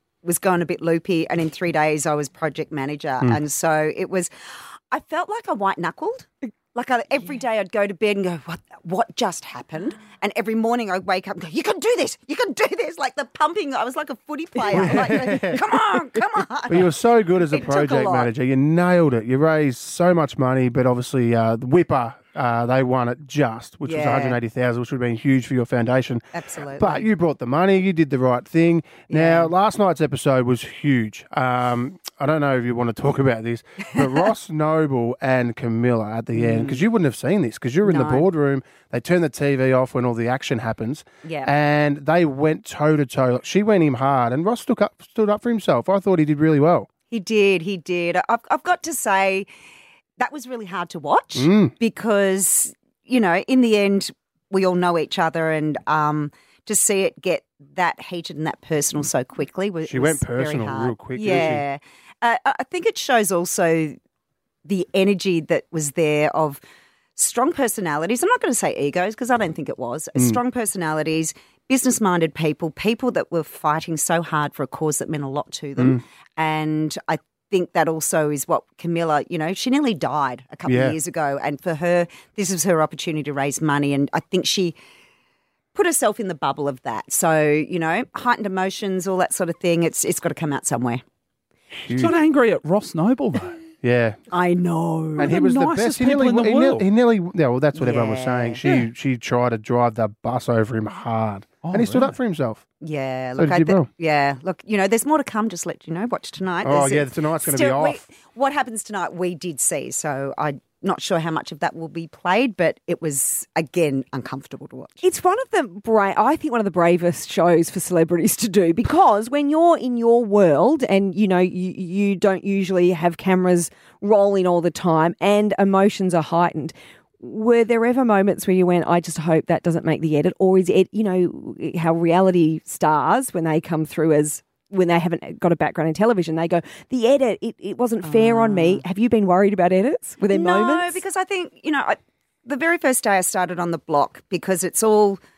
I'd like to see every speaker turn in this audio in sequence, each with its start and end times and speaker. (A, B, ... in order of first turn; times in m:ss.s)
0:00.2-0:04.3 A
0:04.9-0:16.9 A
0:14.7-0:15.6 B
0:16.7-0:46.9 B
0:17.5-0:18.3 A
0:23.8-0:24.4 A
0:26.3-0:27.1 A
0:29.1-0:29.5 A
0:34.0-0:34.3 A
0:36.3-0:36.8 A
0:37.8-0:38.3 A
0:41.2-0:41.5 A
0:47.1-0:49.5 A
0:50.2-1:04.0 A
0:51.4-0:51.8 B
0:59.9-1:01.6 B
1:04.7-1:06.6 A
1:07.2-1:24.8 A
1:20.7-1:21.0 B
1:25.8-1:31.0 A
1:31.8-1:32.2 B
1:31.9-1:33.6 C
1:33.8-1:34.2 B
1:34.3-1:35.5 A
1:35.2-1:36.9 C
1:35.2-1:42.6 B
1:37.8-1:38.6 A
1:41.6-1:42.2 C
1:42.8-1:55.0 A
1:43.4-1:43.9 B
1:46.6-1:48.0 B
1:55.0-2:21.0 D
2:18.0-2:18.8 A
2:20.3-2:25.2 A